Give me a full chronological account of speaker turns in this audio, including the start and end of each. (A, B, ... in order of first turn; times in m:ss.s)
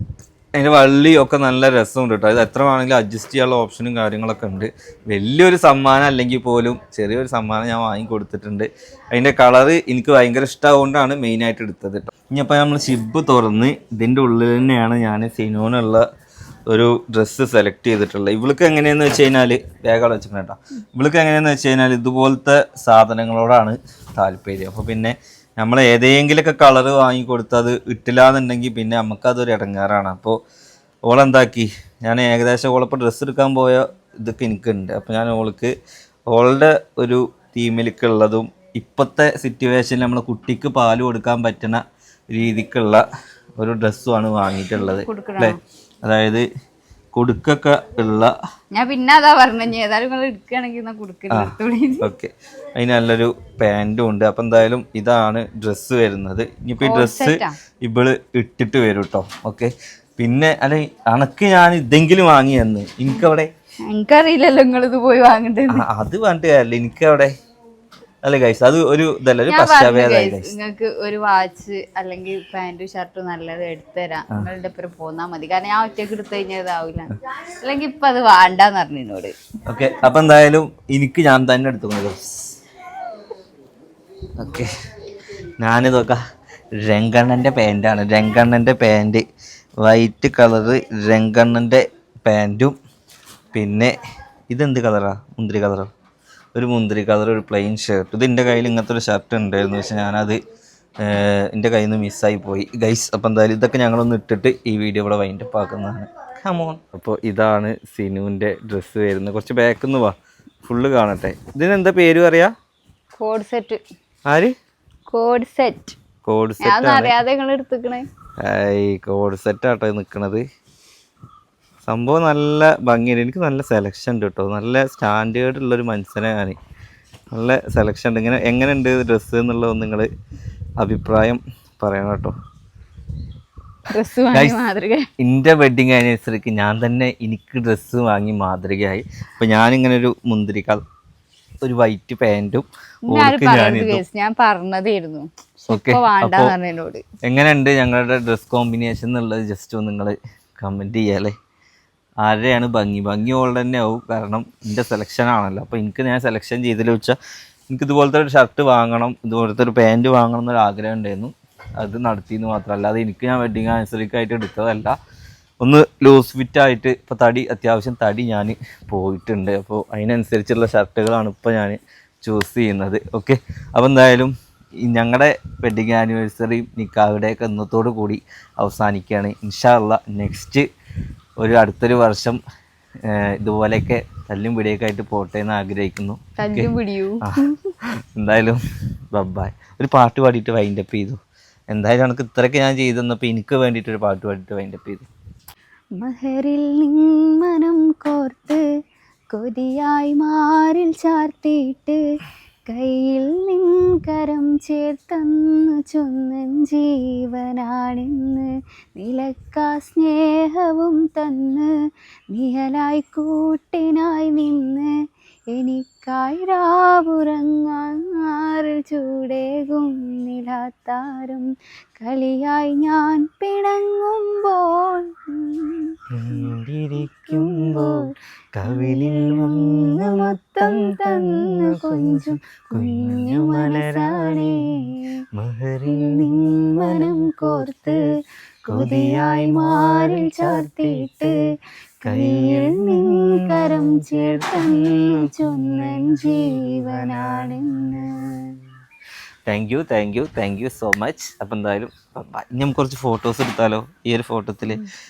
0:00.6-0:16.0 A
0:16.7-0:30.4 A
0:31.1-0:35.7 A
0:36.3-0:43.0 A
0:43.6-0:46.4 A
0:44.7-0:45.6 B
0:47.1-0:48.3 A
0:48.7-0:52.1 B
0:51.3-1:03.5 A
0:56.8-0:57.6 B
1:03.9-1:05.8 B
1:05.7-1:07.3 A
1:08.2-1:10.5 A
1:09.5-1:19.3 B
1:19.7-1:22.6 A
1:24.4-1:24.7 A
1:25.6-1:26.2 A
1:26.8-1:29.2 A
1:29.8-1:32.7 A
1:33.5-1:33.9 A
1:34.5-1:35.9 A
1:36.5-1:40.4 A
1:41.0-1:52.5 A
1:53.2-1:53.8 B
1:54.3-1:54.5 A
1:55.1-1:56.0 B
1:56.2-1:57.1 A
1:56.6-1:58.1 B
1:58.4-2:00.4 A
2:01.8-2:06.6 A
2:07.3-2:10.1 A
2:10.8-2:12.3 A
2:13.9-2:15.1 B
2:14.3-2:14.6 A
2:15.2-2:20.8 A
2:21.6-2:24.0 A
2:23.1-2:27.0 B
2:25.7-2:26.5 A
2:27.2-2:31.3 A
2:32.2-2:37.2 A
2:37.7-2:44.9 A
2:45.6-3:00.6 A
3:01.4-3:02.4 A
3:03.0-3:07.5 A
3:06.4-3:07.7 B
3:08.2-3:08.6 A
3:09.1-3:11.2 A
3:11.7-3:15.1 A
3:16.0-3:18.6 B
3:19.3-3:22.0 B
3:22.7-3:31.7 B
3:32.3-3:34.9 B
3:35.5-3:46.5 B
3:46.1-3:57.9 A
3:47.0-3:55.2 B
3:55.8-3:58.1 B
3:58.7-4:01.4 B
3:58.7-4:01.4 A
4:02.0-4:08.5 A
4:02.0-4:08.6 B
4:09.5-4:14.8 A